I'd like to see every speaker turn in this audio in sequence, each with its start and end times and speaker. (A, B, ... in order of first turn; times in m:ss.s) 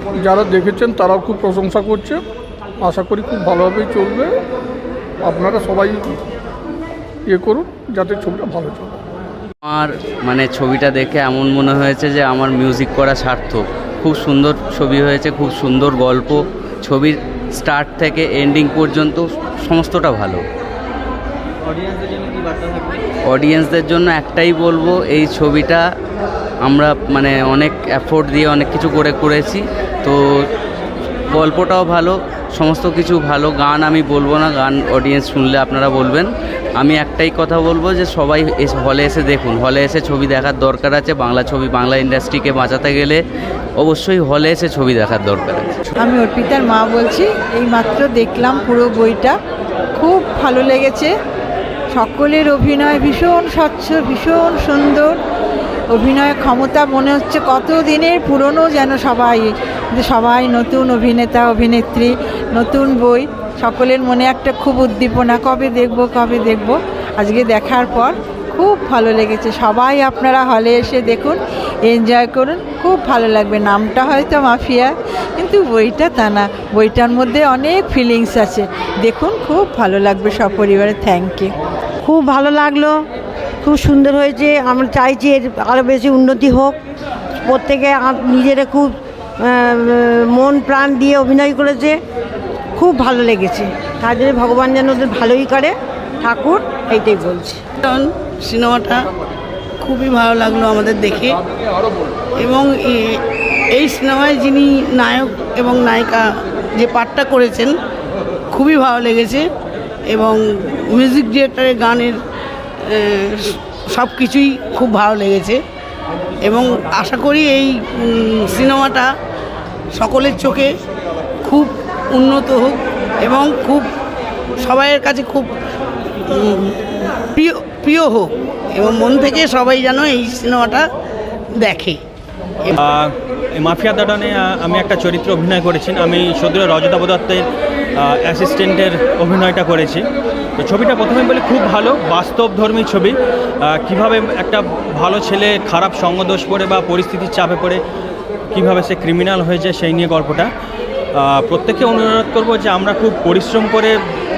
0:00.2-0:02.2 A
0:02.8-0:04.3 A
0:05.2-0:06.2 A
0:07.3-0:08.9 A
0:09.6-0:20.4 B
0:21.7-0:23.0 C
0:23.3-0:25.8 B
0:26.6-0:30.2 B
0:31.3-0:43.2 B
0:43.8-0:45.8 B
0:46.0-0:49.3 D
0:50.0-0:51.1 D
0:51.9-0:55.1 D
0:55.9-1:21.5 D
1:22.0-1:23.0 E
1:23.6-1:26.8 E
1:27.4-1:32.0 E
1:32.8-1:37.6 E
1:37.8-1:39.0 F
1:39.8-1:41.4 F
1:42.4-1:43.2 F
1:43.7-1:46.3 F
1:46.8-1:47.7 F
1:48.5-1:49.4 F
1:50.1-1:50.4 F
1:50.9-1:52.2 F
1:52.9-1:55.6 F
1:56.4-1:59.1 F
2:00.0-2:00.7 F
2:01.4-2:03.9 F
2:04.6-2:05.5 F
2:06.3-2:06.8 F
2:07.3-2:10.9 F
2:11.6-2:12.0 F
2:12.8-2:17.5 C
2:18.0-2:20.1 C
2:20.6-2:27.8 C
2:28.5-2:30.5 C
2:31.2-2:34.0 C